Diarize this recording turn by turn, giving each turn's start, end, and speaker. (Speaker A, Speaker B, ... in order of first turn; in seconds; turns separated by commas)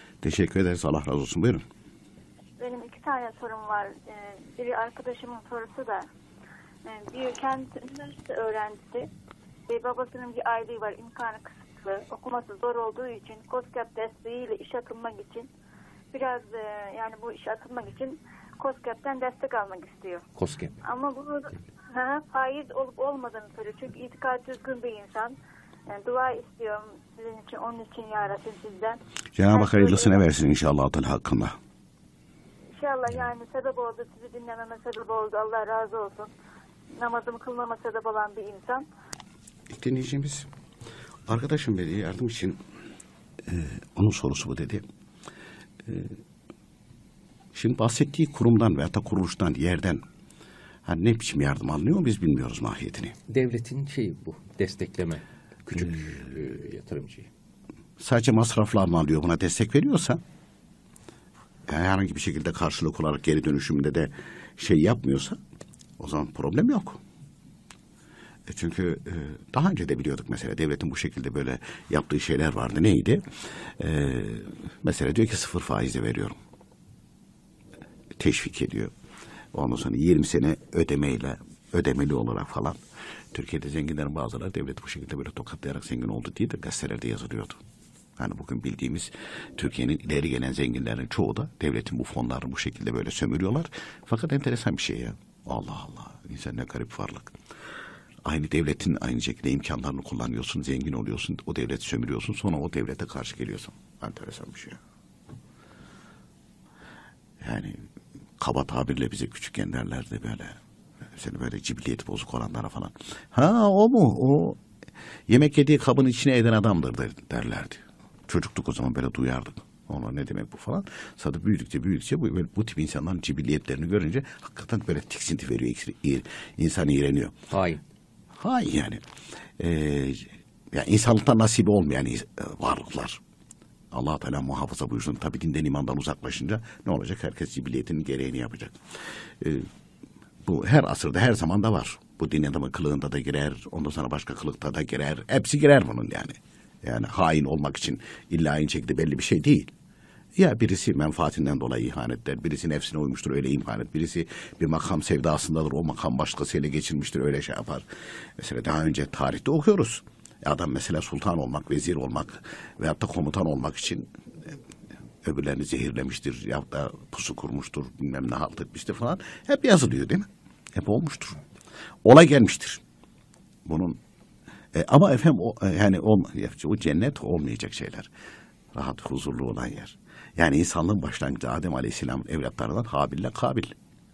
Speaker A: 0.2-1.6, Speaker B: 2.6-6.0, Speaker B: 6.8-9.1, Speaker B: 9.7-15.5, Speaker B: 16.1-20.2, Speaker C: 20.4-20.7, Speaker B: 20.8-25.4, Speaker B: 25.9-30.2, Speaker A: 29.4-31.5, Speaker B: 32.8-36.3, Speaker B: 37.0-38.9, Speaker A: 39.7-40.5, Speaker A: 41.3-42.6, Speaker A: 43.5-44.8, Speaker A: 45.9-46.1, Speaker A: 47.5-50.0, Speaker A: 50.9-53.1, Speaker C: 53.3-57.3, Speaker A: 58.0-60.2, Speaker A: 61.7-65.4, Speaker A: 66.0-67.0, Speaker A: 68.5-73.2, Speaker A: 73.8-76.4, Speaker A: 78.2-78.9, Speaker A: 79.5-82.8, Speaker A: 83.3-87.6, Speaker A: 88.2-97.3, Speaker A: 98.2-104.8, Speaker A: 107.4-107.8, Speaker A: 108.4-110.5, Speaker A: 111.2-114.6, Speaker A: 115.3-127.3, Speaker C: 127.5-127.8, Speaker A: 128.4-129.0, Speaker A: 129.6-133.2, Speaker A: 133.9-138.8, Speaker A: 139.4-139.7, Speaker A: 140.4-149.7, Speaker A: 150.4-157.8, Speaker A: 158.4-164.1, Speaker A: 165.2-171.4, Speaker A: 172.0-172.8, Speaker A: 173.6-174.0, Speaker A: 174.7-178.1, Speaker A: 178.7-183.7